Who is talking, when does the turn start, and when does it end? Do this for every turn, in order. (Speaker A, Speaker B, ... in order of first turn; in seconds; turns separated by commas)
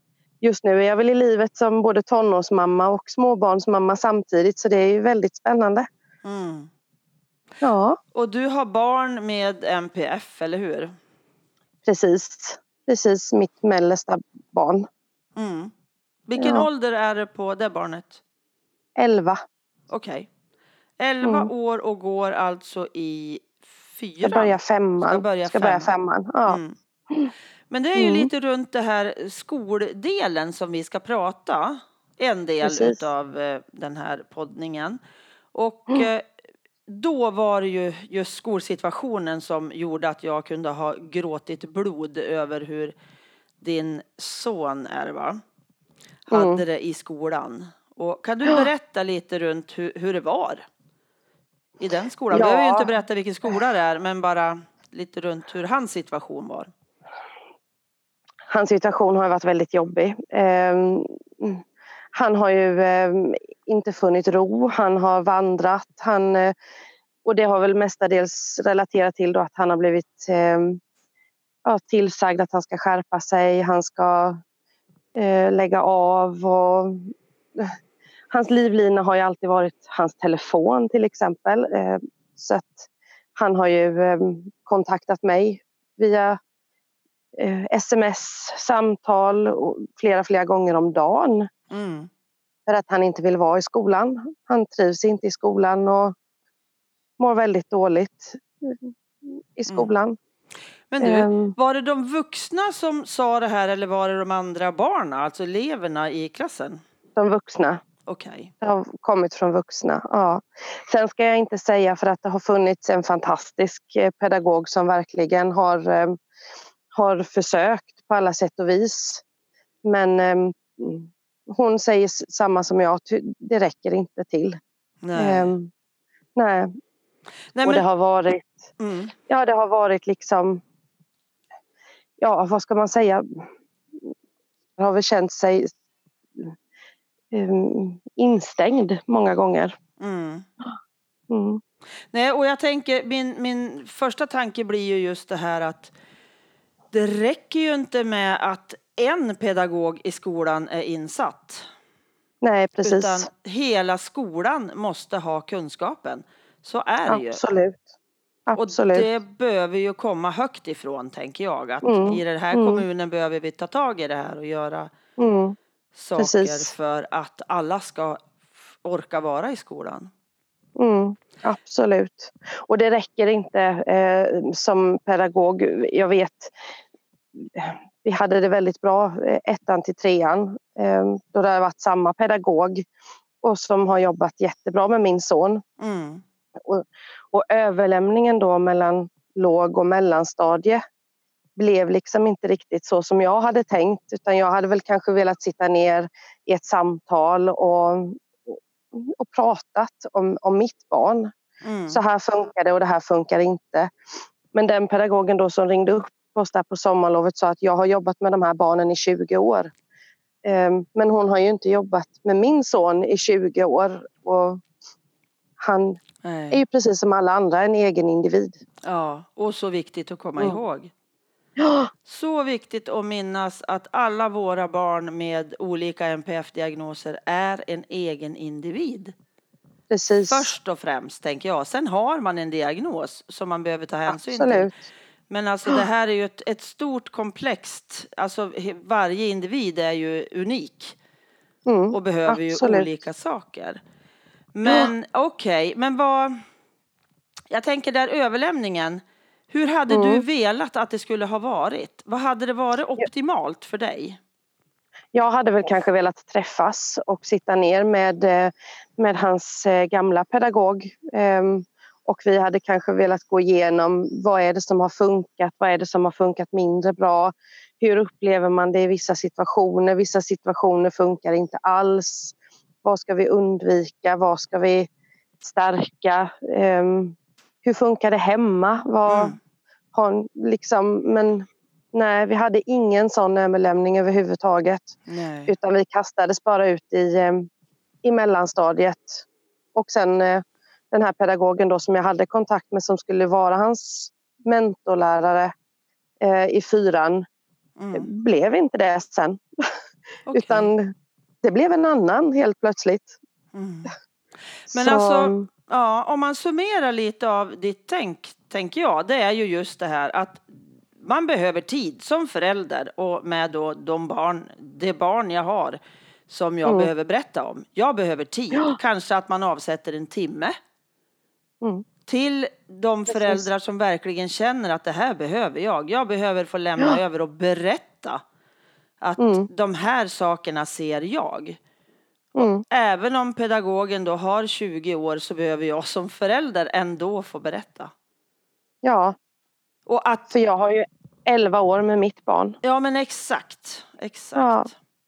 Speaker A: 0.4-5.9, Speaker B: 6.2-6.7, Speaker A: 7.6-8.0, Speaker B: 8.1-10.9, Speaker A: 11.9-14.9, Speaker B: 15.4-15.7, Speaker B: 16.3-18.2, Speaker A: 16.4-16.7, Speaker A: 19.0-19.4, Speaker B: 19.9-20.3, Speaker B: 21.0-25.9, Speaker A: 21.2-21.5, Speaker A: 24.2-27.3, Speaker B: 26.5-26.8, Speaker B: 27.7-35.0, Speaker A: 27.9-28.3, Speaker A: 32.6-33.0, Speaker B: 35.5-36.3, Speaker B: 36.9-42.9, Speaker B: 43.6-45.4, Speaker B: 46.3-50.6, Speaker A: 46.3-46.6, Speaker B: 51.8-56.7, Speaker A: 52.3-52.9, Speaker A: 58.5-66.5, Speaker A: 67.2-70.8, Speaker A: 71.6-74.4, Speaker A: 75.1-77.7, Speaker A: 78.3-86.4, Speaker A: 87.4-91.5, Speaker B: 91.7-92.1, Speaker A: 92.7-96.1, Speaker A: 97.2-100.2, Speaker B: 100.9-106.8, Speaker A: 101.0-101.5, Speaker A: 107.2-107.8, Speaker B: 108.1-108.5, Speaker A: 108.6-116.2, Speaker A: 116.9-119.2, Speaker A: 119.8-124.6, Speaker B: 125.0-125.5, Speaker A: 125.1-125.7, Speaker A: 126.4-126.7, Speaker B: 127.5-127.8, Speaker A: 127.6-128.6, Speaker B: 128.8-129.1, Speaker A: 129.3-130.6, Speaker A: 132.2-133.4, Speaker A: 134.8-135.7, Speaker A: 137.3-139.8, Speaker B: 140.0-140.4, Speaker A: 141.3-141.6, Speaker B: 142.1-145.9, Speaker B: 146.9-151.7, Speaker A: 152.4-153.3, Speaker B: 152.8-157.4, Speaker A: 157.1-157.8, Speaker A: 158.5-159.1, Speaker B: 158.6-164.9, Speaker A: 161.8-162.8, Speaker A: 165.2-165.6, Speaker B: 165.9-168.2, Speaker A: 166.2-166.7, Speaker B: 168.8-170.1, Speaker A: 170.8-176.5, Speaker A: 177.4-182.9, Speaker A: 183.4-185.6, Speaker B: 185.8-186.2, Speaker A: 186.6-190.8, Speaker A: 191.6-201.3, Speaker B: 201.6-202.0, Speaker A: 201.9-203.9, Speaker A: 204.5-209.7, Speaker A: 210.4-214.6, Speaker A: 215.6-218.6, Speaker B: 216.2-216.6, Speaker B: 218.8-220.9, Speaker A: 221.6-221.9, Speaker B: 222.1-229.1, Speaker A: 229.9-230.5, Speaker B: 230.3-234.7, Speaker A: 234.1-234.8, Speaker B: 235.3-241.0, Speaker A: 241.7-242.9, Speaker B: 241.9-243.8, Speaker B: 244.5-246.4, Speaker A: 244.6-244.9, Speaker B: 247.5-254.2, Speaker A: 249.9-250.2, Speaker A: 255.1-274.9, Speaker A: 275.4-279.4, Speaker B: 279.1-279.4, Speaker A: 279.9-287.5, Speaker B: 285.1-285.5, Speaker A: 288.0-295.5, Speaker A: 296.2-297.2, Speaker B: 297.8-298.1, Speaker A: 297.9-299.7, Speaker B: 300.3-300.7, Speaker A: 300.3-303.2, Speaker B: 303.5-303.9, Speaker B: 304.7-320.6, Speaker A: 304.7-305.5, Speaker A: 316.6-316.9, Speaker B: 322.0-328.2, Speaker A: 323.1-323.5, Speaker B: 329.0-331.6, Speaker A: 329.2-329.5, Speaker B: 332.4-337.9, Speaker A: 332.4-332.6, Speaker A: 338.8-339.1, Speaker B: 339.9-340.3, Speaker A: 340.3-342.6, Speaker B: 342.6-344.7, Speaker A: 344.4-344.7